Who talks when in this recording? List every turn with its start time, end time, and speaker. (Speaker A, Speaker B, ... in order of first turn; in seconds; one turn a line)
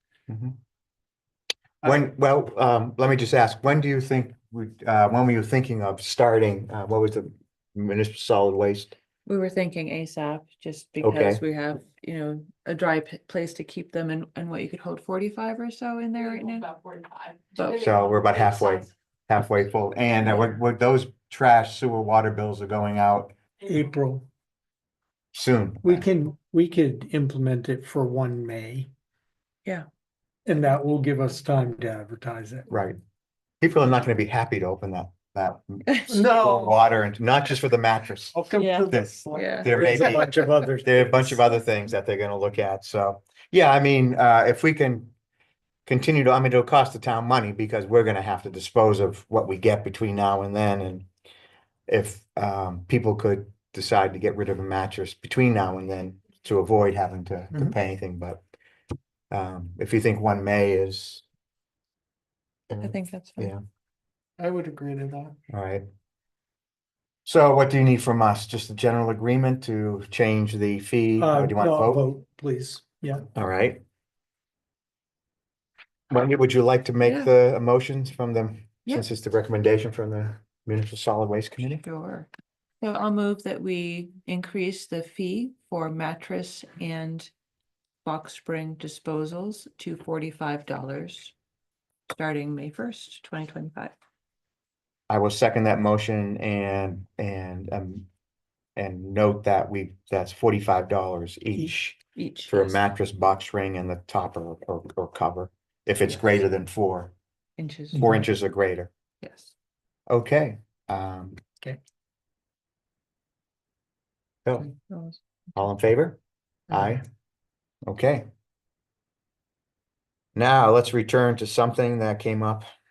Speaker A: 0.3-0.6
Speaker A: 1.8-8.9
Speaker B: 9.2-16.8
Speaker A: 11.0-11.4
Speaker B: 17.5-18.0
Speaker A: 17.8-23.3
Speaker B: 20.3-20.5
Speaker C: 23.7-24.3
Speaker A: 25.3-26.1
Speaker C: 25.8-28.9
Speaker C: 30.4-32.7
Speaker A: 32.7-33.0
Speaker A: 33.6-45.1
Speaker D: 36.1-36.7
Speaker C: 38.3-41.4
Speaker B: 38.5-39.9
Speaker D: 38.9-39.5
Speaker A: 45.9-51.0
Speaker A: 51.9-58.4
Speaker A: 59.3-61.2
Speaker A: 62.7-63.6
Speaker B: 62.8-63.5
Speaker D: 64.4-65.3
Speaker A: 65.5-65.8
Speaker A: 67.2-72.0
Speaker C: 71.2-73.2
Speaker A: 73.3-73.8
Speaker A: 76.1-81.8
Speaker B: 77.0-77.3
Speaker B: 81.8-82.3
Speaker B: 82.8-87.3
Speaker B: 88.0-91.3
Speaker B: 92.1-93.9
Speaker A: 95.1-98.1
Speaker A: 98.8-107.1
Speaker B: 102.2-102.8
Speaker B: 107.6-108.1
Speaker C: 107.9-108.2
Speaker A: 108.0-108.9
Speaker B: 109.2-109.5
Speaker A: 110.1-111.4
Speaker B: 114.5-115.2
Speaker A: 115.5-116.2
Speaker A: 116.7-117.0
Speaker A: 117.8-118.2
Speaker A: 120.3-122.7